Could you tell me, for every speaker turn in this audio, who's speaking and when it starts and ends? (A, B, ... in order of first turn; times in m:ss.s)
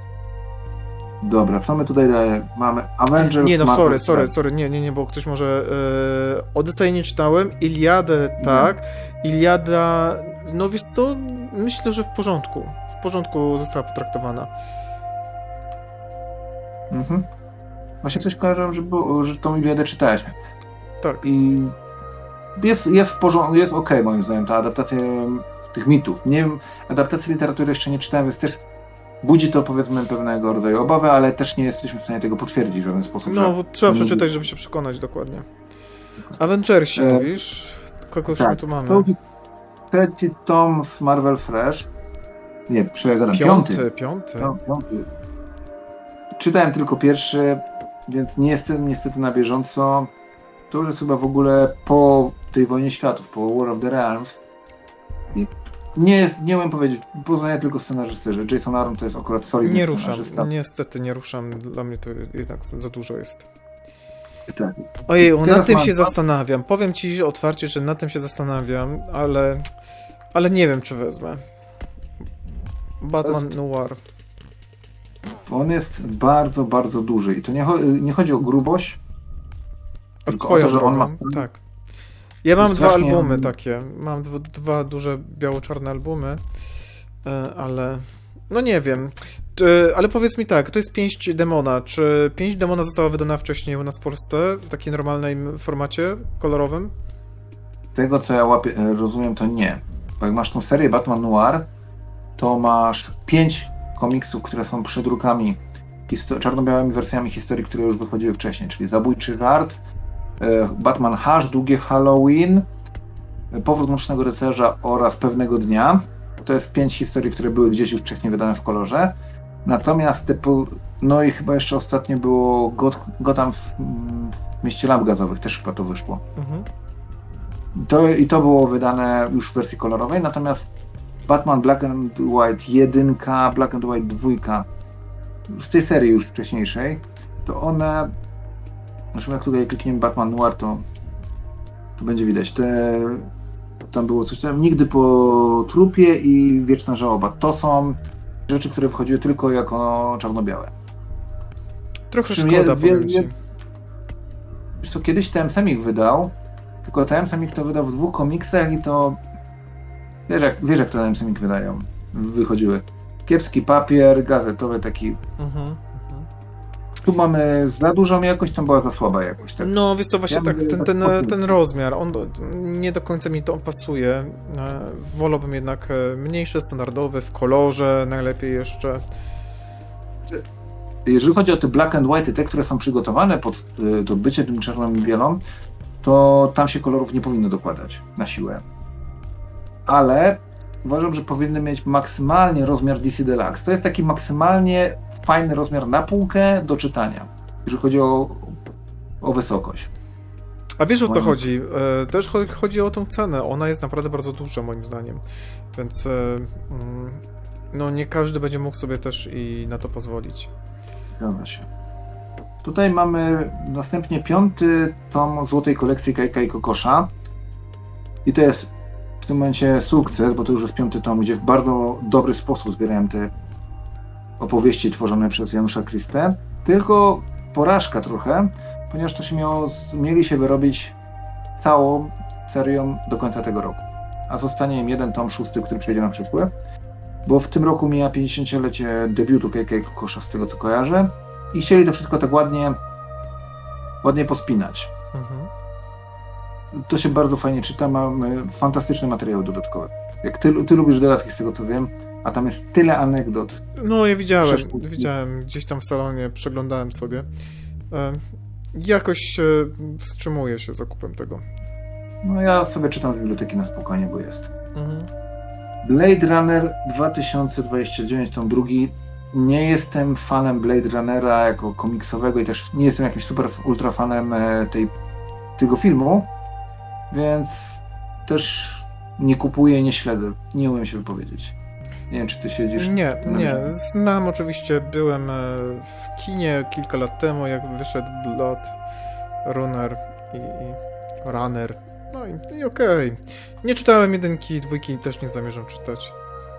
0:01.2-0:04.3 A
0:03.2-0:14.5 B
0:08.4-0:08.7 A
0:16.9-0:17.2 A
0:18.0-0:20.3 A
0:21.0-0:21.3 B
0:21.2-0:21.8 A
0:22.6-0:28.6 A
0:29.2-0:34.3 A
0:33.2-0:35.5 B
0:36.4-0:39.1 B
0:37.0-0:37.3 A
0:38.3-0:39.2 A
0:39.9-0:41.9 A
0:42.7-0:43.9 A
0:43.3-0:44.6 B
0:44.4-0:45.1 A
0:46.4-0:50.1 A
0:50.7-0:54.4 A
0:55.3-1:00.5 A
0:59.6-1:03.5 B
1:04.5-1:06.1 A
1:05.1-1:09.6 B
1:10.3-1:11.4 B
1:13.0-1:14.0 B
1:13.2-1:13.5 A
1:15.5-1:19.0 A
1:20.3-1:21.6 B
1:20.3-1:21.4 A
1:22.4-1:26.4 B
1:22.6-1:23.5 A
1:27.2-1:36.9 B
1:38.0-1:41.7 A
1:42.4-1:49.8 A
1:50.4-1:52.7 A
1:53.5-2:06.2 A
2:06.4-2:06.7 B
2:07.7-2:10.7 A
2:11.3-2:14.7 A
2:15.5-2:18.1 A
2:19.1-2:20.8 A
2:22.0-2:23.3 A
2:23.9-2:28.0 A
2:28.5-2:30.7 A
2:32.1-2:33.3 B
2:32.2-2:33.3 A
2:34.8-2:39.2 A
2:40.3-2:45.2 A
2:45.4-2:46.3 B
2:47.0-2:49.7 A
2:49.6-2:59.0 B
2:50.3-2:51.6 A
3:01.1-3:05.4 A
3:06.0-3:08.6 A
3:09.9-3:18.6 A
3:19.2-3:19.9 A
3:20.8-3:25.2 B
3:21.1-3:21.4 A
3:25.7-3:30.5 B
3:31.2-3:31.7 A
3:32.6-3:37.1 A
3:38.3-3:43.3 A
3:44.4-3:50.9 A
3:51.6-3:56.5 A
3:57.3-4:02.8 A
4:04.0-4:04.9 A
4:05.1-4:05.5 B
4:06.8-4:13.6 A
4:13.8-4:17.3 B
4:14.4-4:15.1 A
4:17.9-4:18.2 B
4:18.7-4:21.4 B
4:22.2-4:24.5 A
4:24.8-4:25.1 B
4:25.8-4:34.9 A
4:35.6-4:36.3 A
4:37.1-4:41.6 A
4:42.1-4:43.7 A
4:42.8-4:48.8 B
4:49.4-4:56.2 B